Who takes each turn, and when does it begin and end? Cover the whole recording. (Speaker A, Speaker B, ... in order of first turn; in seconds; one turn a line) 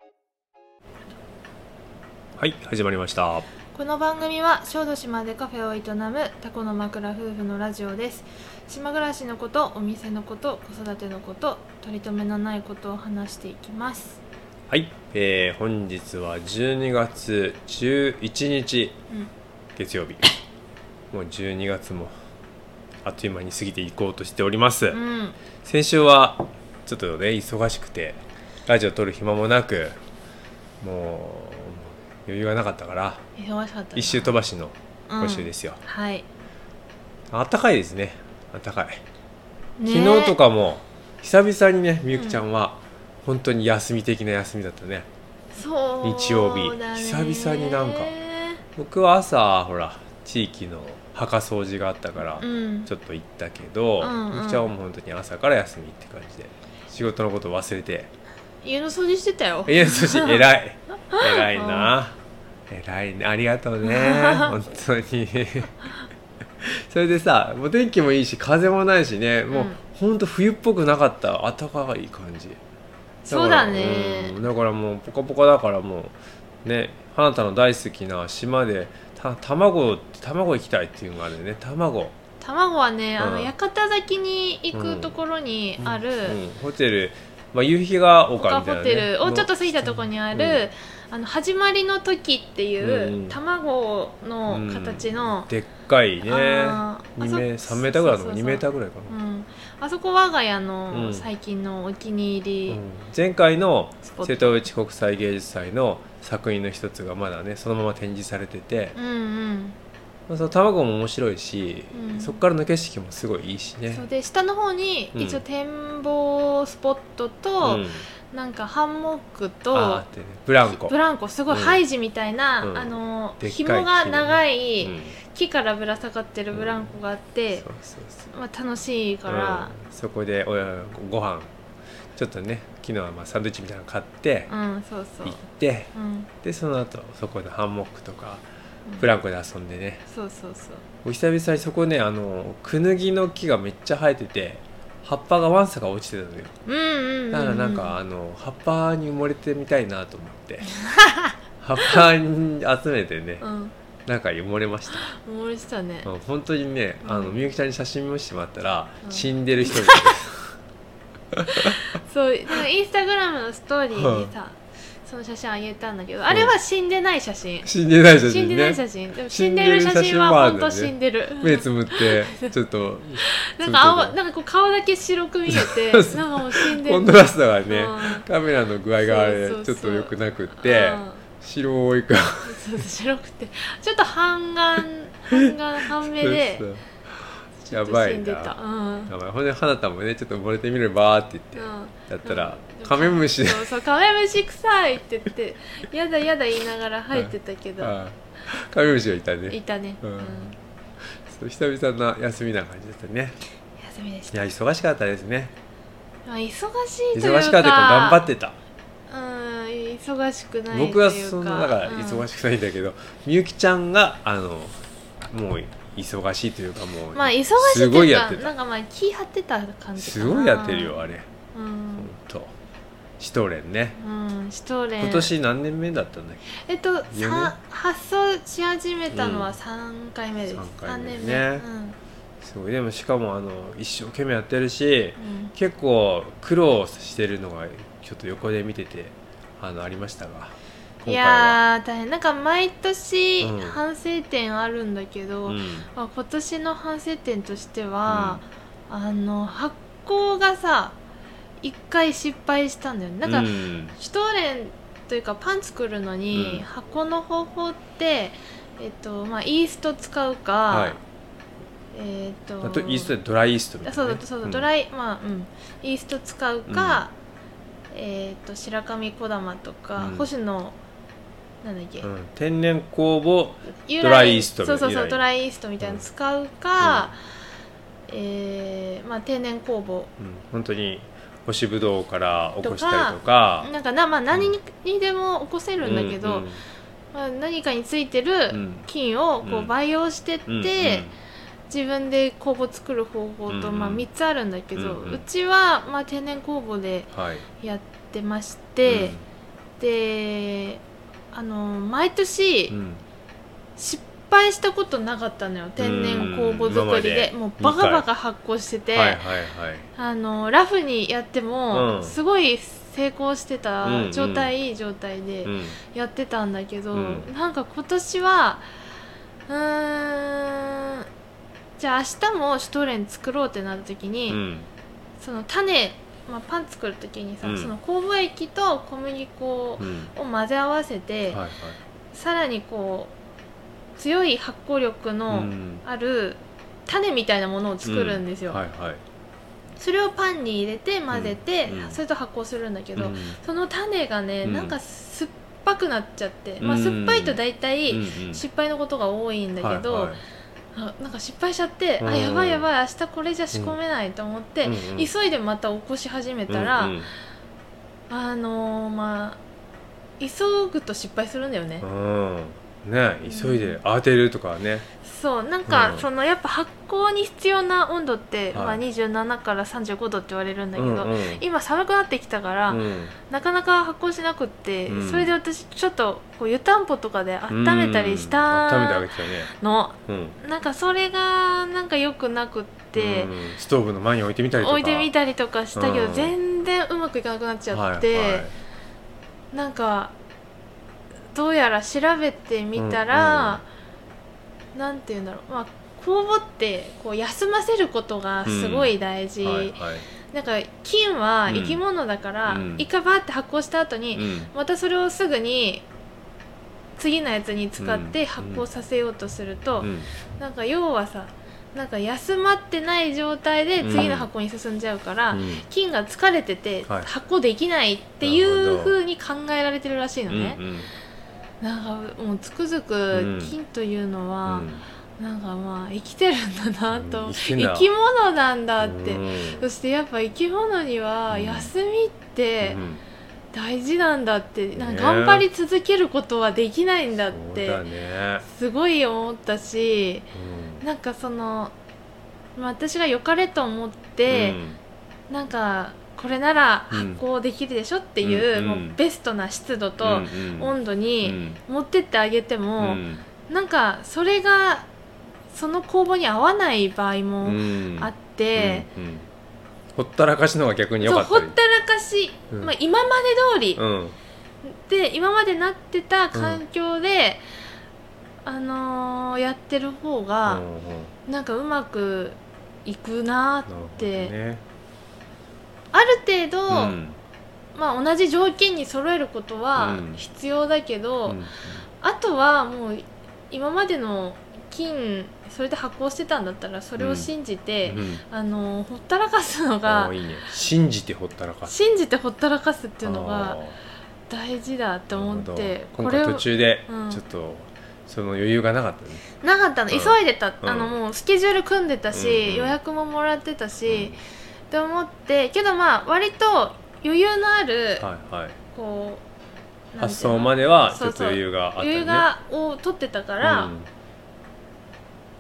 Speaker A: 2.4-3.5
Speaker B: 3.7-14.2
Speaker A: 14.7-19.0
Speaker A: 19.8-20.3
Speaker A: 21.1-22.1
Speaker A: 23.0-25.0
Speaker B: 24.9-25.4
Speaker A: 25.6-30.0
Speaker A: 30.8-33.2
Speaker B: 33.4-34.3
Speaker A: 34.0-35.8
Speaker B: 35.1-36.3
Speaker A: 37.3-39.0
Speaker B: 39.8-40.4
Speaker A: 39.9-45.1
Speaker B: 42.1-42.4
Speaker B: 45.5-48.6
Speaker A: 46.0-48.1
Speaker A: 48.8-58.1
Speaker B: 52.4-52.9
Speaker B: 54.0-54.7
Speaker B: 58.6-60.5
Speaker A: 59.6-62.2
Speaker B: 61.1-61.9
Speaker A: 62.7-65.8
Speaker B: 63.8-64.6
Speaker A: 66.6-72.6
Speaker B: 69.5-69.8
Speaker B: 73.3-74.4
Speaker A: 73.3-82.2
Speaker B: 82.4-86.4
Speaker A: 83.2-83.5
Speaker A: 84.7-85.2
Speaker A: 85.8-90.6
Speaker B: 88.4-95.5
Speaker A: 92.8-93.4
Speaker A: 94.5-99.2
Speaker B: 96.3-102.8
Speaker A: 100.9-101.3
Speaker A: 102.7-109.0
Speaker B: 104.0-104.7
Speaker B: 109.0-109.8
Speaker A: 110.3-114.0
Speaker B: 111.9-112.4
Speaker B: 113.9-120.0
Speaker A: 115.2-115.4
Speaker A: 117.6-118.1
Speaker A: 119.7-121.0
Speaker B: 120.7-127.7
Speaker A: 121.5-121.8
Speaker A: 122.6-125.2
Speaker A: 126.5-127.0
Speaker A: 127.5-128.3
Speaker B: 128.3-129.7
Speaker A: 129.3-131.5
Speaker A: 132.2-134.5
Speaker B: 134.5-135.4
Speaker A: 135.2-138.4
Speaker B: 135.9-136.3
Speaker A: 139.0-140.0
Speaker B: 140.1-140.8
Speaker A: 141.0-146.5
Speaker B: 146.7-147.9
Speaker A: 147.3-150.7
Speaker B: 150.7-152.0
Speaker A: 151.6-153.4
Speaker B: 153.4-153.7
Speaker A: 154.1-155.1
Speaker B: 155.0-156.1
Speaker A: 156.0-160.6
Speaker B: 157.0-157.4
Speaker B: 159.0-160.2
Speaker A: 161.3-161.8
Speaker B: 161.5-167.7
Speaker A: 163.9-164.3
Speaker A: 167.7-174.2
Speaker B: 168.2-172.5
Speaker B: 173.2-178.3
Speaker A: 175.5-182.8
Speaker B: 179.0-181.2
Speaker B: 182.4-186.7
Speaker A: 185.3-193.7
Speaker B: 187.7-189.1
Speaker B: 191.6-198.0
Speaker A: 197.1-203.4
Speaker B: 199.5-200.6
Speaker B: 203.8-204.3
Speaker A: 204.3-205.5
Speaker B: 206.3-208.2
Speaker A: 207.1-208.6
Speaker B: 209.1-212.3
Speaker A: 210.7-218.5
Speaker B: 217.2-221.0
Speaker A: 220.0-221.3
Speaker B: 221.5-222.1
Speaker A: 222.0-222.6
Speaker A: 223.2-224.0
Speaker B: 224.0-225.3
Speaker A: 225.0-226.4
Speaker B: 226.6-232.0
Speaker A: 227.1-227.6
Speaker A: 229.1-229.5
Speaker A: 230.5-231.7
Speaker A: 232.4-241.6
Speaker B: 235.2-235.5
Speaker B: 241.1-251.0
Speaker A: 243.4-243.8
Speaker A: 245.5-245.9
Speaker A: 248.1-248.4
Speaker B: 251.6-261.0
Speaker A: 253.2-254.0
Speaker A: 256.3-256.7
Speaker A: 260.7-261.0
Speaker B: 261.9-263.1
Speaker A: 262.6-264.7
Speaker B: 263.9-267.1
Speaker A: 266.7-267.0
Speaker B: 267.9-270.8
Speaker A: 270.0-270.3
Speaker B: 271.6-272.1
Speaker A: 272.0-275.2
Speaker B: 273.9-277.2
Speaker A: 276.8-277.1
Speaker B: 278.1-280.1
Speaker A: 280.2-283.7
Speaker B: 282.6-286.5
Speaker A: 285.8-286.6
Speaker B: 287.1-291.1
Speaker A: 288.5-288.9
Speaker A: 289.4-289.7
Speaker A: 290.5-291.1
Speaker B: 291.7-297.1
Speaker A: 293.5-294.1
Speaker A: 294.8-295.2
Speaker A: 297.1-297.5
Speaker B: 297.6-299.1
Speaker A: 298.9-299.2
Speaker B: 299.8-302.8
Speaker A: 302.7-303.0
Speaker B: 303.8-309.2
Speaker A: 305.8-308.1
Speaker A: 308.9-309.9
Speaker B: 310.0-318.7
Speaker A: 311.7-312.2
Speaker A: 313.8-314.5
Speaker A: 315.4-315.8
Speaker A: 316.9-317.3
Speaker B: 319.5-321.1
Speaker B: 321.8-324.4
Speaker A: 324.3-324.7
Speaker B: 325.2-331.4
Speaker A: 327.4-327.7
Speaker A: 329.8-330.1
Speaker A: 331.3-331.8
Speaker B: 332.1-333.1
Speaker B: 334.0-338.6
Speaker A: 335.3-335.8
Speaker A: 337.8-339.0
Speaker B: 339.8-350.1
Speaker A: 341.1-342.0
Speaker A: 343.0-343.4
Speaker A: 344.4-344.8
Speaker A: 346.6-348.4
Speaker A: 349.6-350.2
Speaker B: 350.7-357.0
Speaker A: 352.0-352.7
Speaker A: 354.6-355.1
Speaker A: 356.5-357.1
Speaker B: 358.1-359.4
Speaker B: 360.2-361.9
Speaker A: 361.8-364.9
Speaker B: 363.2-363.8
Speaker B: 365.0-383.3
Speaker A: 365.7-366.1
Speaker A: 368.5-368.8
Speaker A: 370.8-371.4
Speaker A: 372.7-373.1
Speaker A: 374.9-375.4
Speaker A: 377.5-379.5
Speaker A: 380.1-380.4
Speaker A: 382.9-385.1
Speaker B: 384.6-388.5
Speaker A: 385.8-386.4
Speaker A: 387.7-388.5
Speaker B: 389.5-390.1
Speaker B: 391.3-393.6
Speaker A: 392.8-393.6
Speaker B: 394.8-405.9
Speaker A: 398.5-400.1
Speaker A: 401.5-401.8
Speaker A: 402.5-402.9
Speaker A: 404.1-404.5
Speaker B: 407.0-420.6
Speaker A: 407.8-408.6
Speaker A: 409.8-410.1
Speaker A: 413.8-414.3
Speaker A: 415.3-415.6
Speaker A: 418.2-419.0
Speaker A: 420.3-420.9
Speaker B: 421.6-432.8
Speaker A: 423.1-423.6
Speaker A: 424.5-424.8
Speaker A: 426.9-427.9
Speaker A: 428.8-429.7
Speaker A: 431.3-431.7
Speaker A: 432.6-433.0
Speaker B: 433.5-437.8
Speaker A: 434.8-435.5
Speaker A: 437.3-438.4
Speaker B: 438.4-440.3
Speaker A: 440.3-440.8
Speaker B: 440.8-441.7
Speaker B: 442.6-444.6
Speaker A: 444.3-444.8
Speaker B: 445.3-454.9
Speaker A: 446.9-447.2
Speaker A: 448.2-449.0
Speaker A: 450.0-451.6
Speaker A: 452.8-453.3
Speaker B: 455.5-458.9
Speaker A: 457.4-459.3
Speaker A: 459.9-461.6
Speaker B: 461.0-463.8
Speaker A: 463.8-464.2
Speaker B: 464.6-467.4
Speaker A: 466.3-466.6
Speaker B: 468.4-470.6
Speaker A: 470.5-471.1
Speaker B: 471.3-474.3
Speaker A: 473.7-474.6
Speaker B: 475.9-477.0
Speaker A: 476.7-477.2
Speaker B: 477.8-481.4
Speaker A: 479.8-480.2
Speaker A: 481.3-481.9
Speaker B: 482.0-490.2
Speaker A: 487.0-487.3
Speaker A: 487.9-488.2
Speaker A: 489.9-491.7
Speaker B: 491.7-493.6
Speaker A: 493.0-493.8
Speaker B: 494.3-497.2
Speaker A: 495.1-499.2
Speaker B: 499.4-504.2
Speaker A: 499.9-501.0
Speaker A: 502.1-502.8
Speaker A: 503.9-504.2
Speaker B: 504.7-508.1
Speaker A: 508.0-508.6
Speaker B: 508.7-509.2
Speaker B: 509.9-513.7
Speaker A: 510.0-512.3
Speaker A: 513.4-513.9